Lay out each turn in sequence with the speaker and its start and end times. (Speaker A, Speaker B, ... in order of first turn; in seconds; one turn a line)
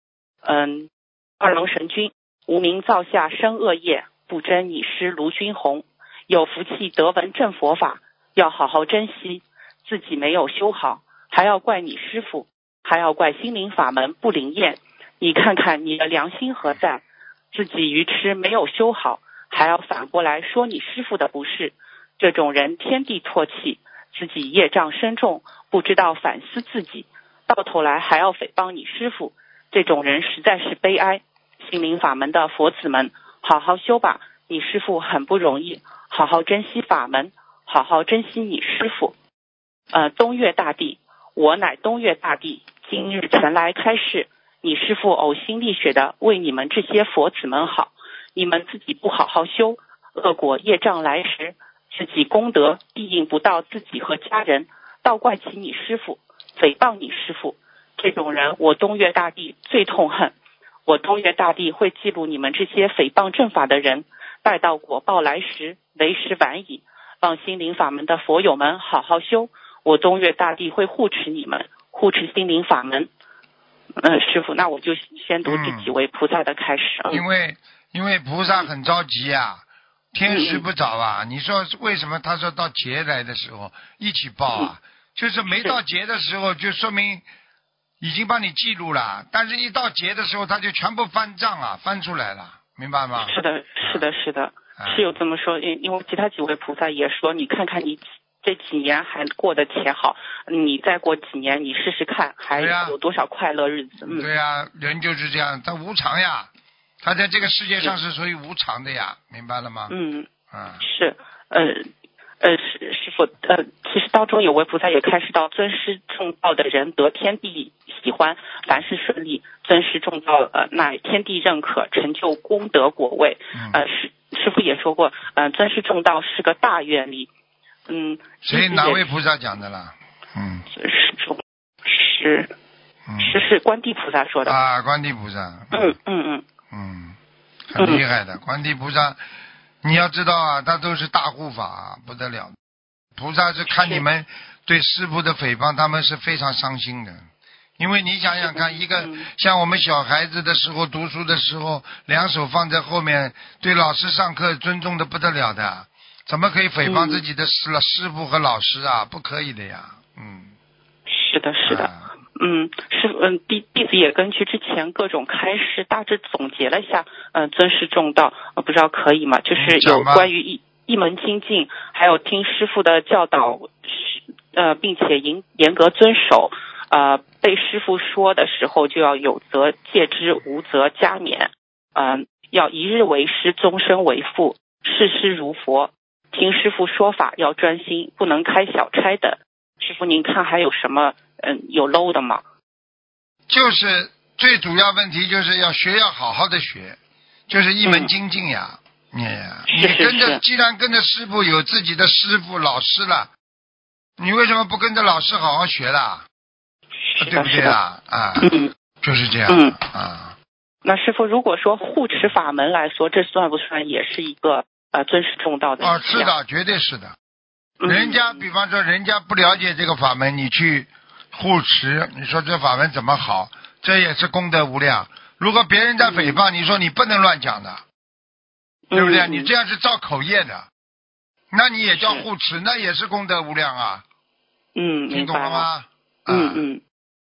Speaker A: 0.4-39.1
Speaker A: 39.9-60.3
Speaker A: 60.9-73.1
Speaker A: 74.0-77.2
Speaker B: 75.5-75.9
Speaker B: 77.1-87.2
Speaker A: 80.3-80.7
Speaker A: 84.5-84.7
Speaker A: 85.5-85.8
Speaker B: 88.0-94.1
Speaker A: 93.2-104.3
Speaker B: 94.8-95.1
Speaker B: 102.5-103.0
Speaker B: 104.0-109.9
Speaker A: 109.9-110.3
Speaker B: 110.5-110.8
Speaker A: 110.8-111.8
Speaker A: 112.4-127.3
Speaker B: 123.5-123.8
Speaker A: 127.9-129.1
Speaker B: 128.4-130.7
Speaker A: 130.7-132.5
Speaker B: 133.1-133.5
Speaker A: 133.2-134.6
Speaker B: 134.4-136.0
Speaker A: 135.7-136.4
Speaker B: 136.7-137.2
Speaker B: 137.7-139.2
Speaker A: 137.8-138.0
Speaker B: 139.8-142.6
Speaker B: 143.2-147.2
Speaker A: 143.7-144.1
Speaker B: 147.8-160.5
Speaker A: 148.4-149.3
Speaker A: 156.8-157.2
Speaker A: 161.1-192.4
Speaker B: 161.7-162.1
Speaker B: 169.6-170.3
Speaker B: 193.5-203.3
Speaker A: 197.8-198.1
Speaker A: 199.7-200.4
Speaker B: 204.2-206.3
Speaker A: 207.1-207.8
Speaker B: 207.2-208.5
Speaker A: 208.4-208.7
Speaker B: 209.0-210.4
Speaker A: 209.5-209.8
Speaker A: 210.8-216.3
Speaker B: 215.8-217.2
Speaker A: 217.8-218.4
Speaker B: 217.9-227.8
Speaker A: 226.0-226.4
Speaker A: 228.9-229.5
Speaker B: 228.9-230.7
Speaker B: 231.5-234.0
Speaker A: 231.9-232.3
Speaker A: 234.8-235.7
Speaker B: 235.1-236.6
Speaker A: 236.3-236.8